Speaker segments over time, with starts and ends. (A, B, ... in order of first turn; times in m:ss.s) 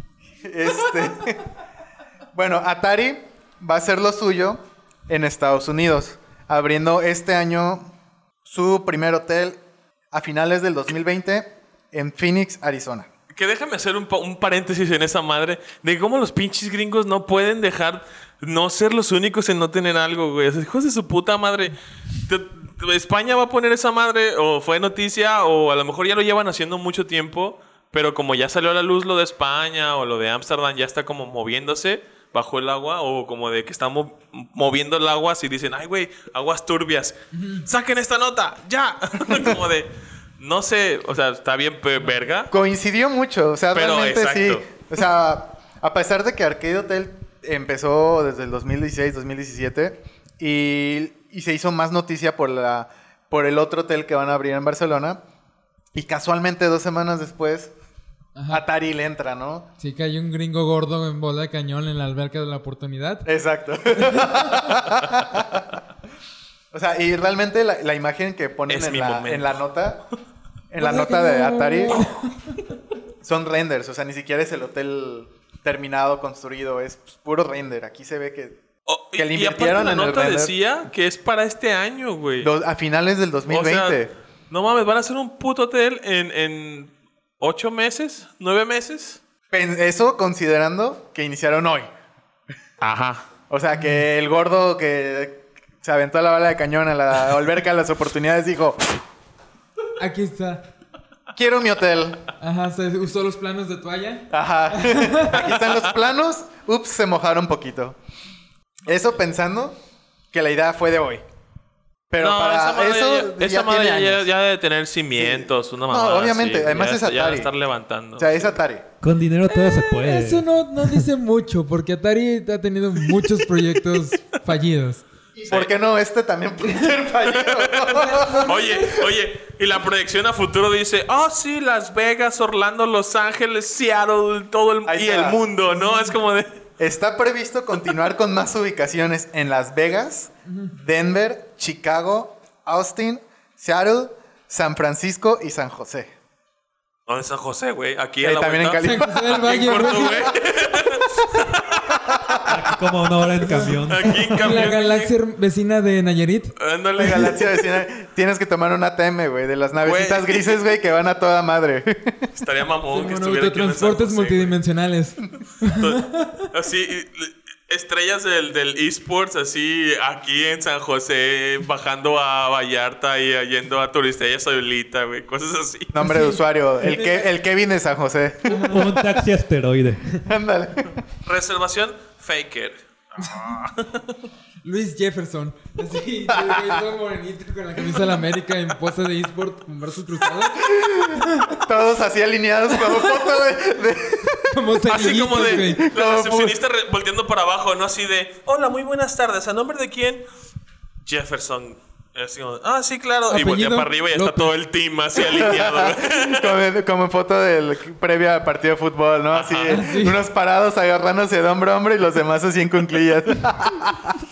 0:00.4-0:01.5 A
0:02.3-0:07.9 A
0:08.4-0:09.6 A
0:10.1-0:13.1 A
0:13.3-0:21.8 B
0:22.3-0:42.5 B
0:37.3-0:37.6 C
0:42.5-0:55.2 A
0:43.7-0:44.7 B
0:55.9-0:57.7 A
0:58.4-0:58.6 C
0:58.5-0:59.7 A
0:59.8-1:03.3 C
1:03.3-1:05.8 A
1:04.0-1:04.5 C
1:06.7-1:10.0 A
1:08.7-1:09.6 B
1:10.7-1:12.1 A
1:10.8-1:12.6 C
1:13.2-1:18.6 A
1:18.9-1:22.5 B
1:19.2-1:20.5 A
1:22.4-1:24.1 A
1:23.5-1:29.2 B
1:29.5-1:31.9 A
1:32.8-1:33.2 B
1:33.5-1:38.9 A
1:40.0-1:40.6 C
1:41.4-1:42.3 A
1:42.4-1:45.5 C
1:44.3-1:48.0 A
1:48.9-1:49.8 A
1:50.3-1:51.2 A
1:52.1-1:54.3 A
1:52.2-1:58.5 B
1:55.2-1:57.5 A
1:58.2-1:58.9 A
1:59.0-2:01.0 D
1:59.5-2:05.0 C
2:05.4-2:08.9 A
2:07.3-2:16.6 B
2:08.2-2:08.6 C
2:14.9-2:15.4 A
2:15.8-2:16.1 C
2:16.8-2:26.1 A
2:20.5-2:20.7 C
2:27.1-2:31.9 B
2:28.2-2:30.8 A
2:28.8-2:30.3 C
2:31.9-2:32.7 A
2:32.4-2:34.7 D
2:33.4-2:33.8 C
2:33.9-2:35.1 B
2:34.4-2:36.5 C
2:36.6-2:37.6 B
2:37.0-2:42.3 A
2:39.8-2:40.6 B
2:42.3-2:44.6 B
2:42.9-2:46.5 C
2:45.6-2:56.0 B
2:55.9-2:58.9 A
2:56.0-2:57.3 C
2:58.5-2:58.9 C
2:58.6-3:00.3 D
3:00.2-3:01.0 A
3:01.2-3:04.2 B
3:04.6-3:11.6 C
3:06.3-3:06.8 A
3:10.6-3:14.6 A
3:14.5-3:15.8 C
3:14.9-3:20.2 B
3:15.3-3:16.6 A
3:21.0-3:26.6 B
3:23.3-3:24.5 C
3:25.2-3:34.2 A
3:29.3-3:29.8 B
3:29.7-3:30.2 C